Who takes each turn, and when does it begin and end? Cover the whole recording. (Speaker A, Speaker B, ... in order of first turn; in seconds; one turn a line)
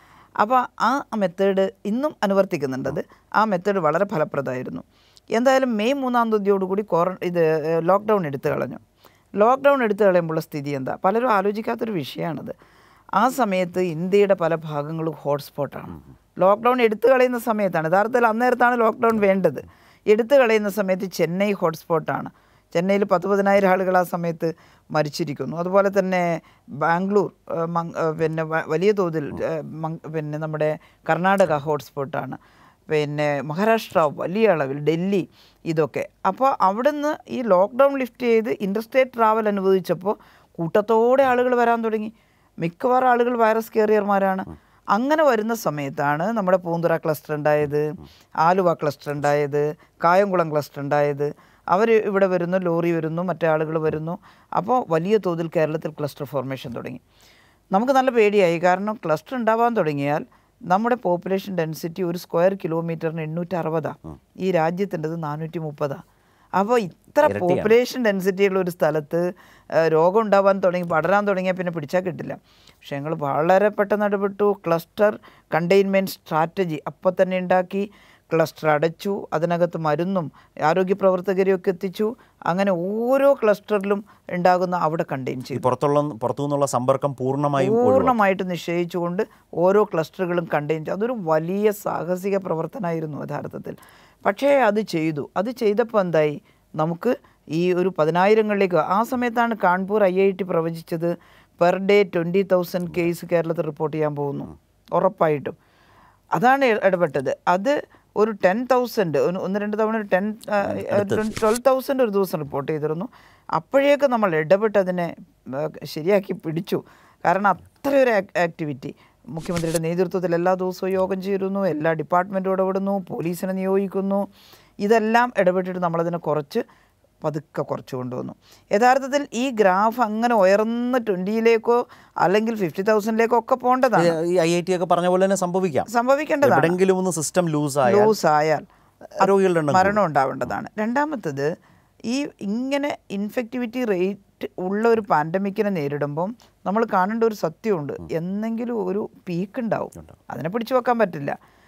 Speaker A: 0.4-8.8
Speaker A: 9.4-12.6
Speaker A: 13.2-32.4
Speaker A: 32.9-57.0
Speaker A: 57.7-66.0
Speaker A: 66.6-69.3
Speaker B: 67.2-67.7
Speaker A: 69.8-85.7
Speaker B: 85.5-88.2
Speaker A: 87.6-105.5
Speaker A: 106.3-124.2
Speaker B: 110.7-111.3
Speaker A: 124.8-126.6
Speaker A: 127.2-134.2
Speaker B: 134.0-135.9
Speaker A: 135.9-136.8
Speaker B: 136.4-138.2
Speaker A: 137.8-138.7
Speaker B: 139.2-140.0
Speaker A: 139.2-141.5
Speaker A: 142.1-151.4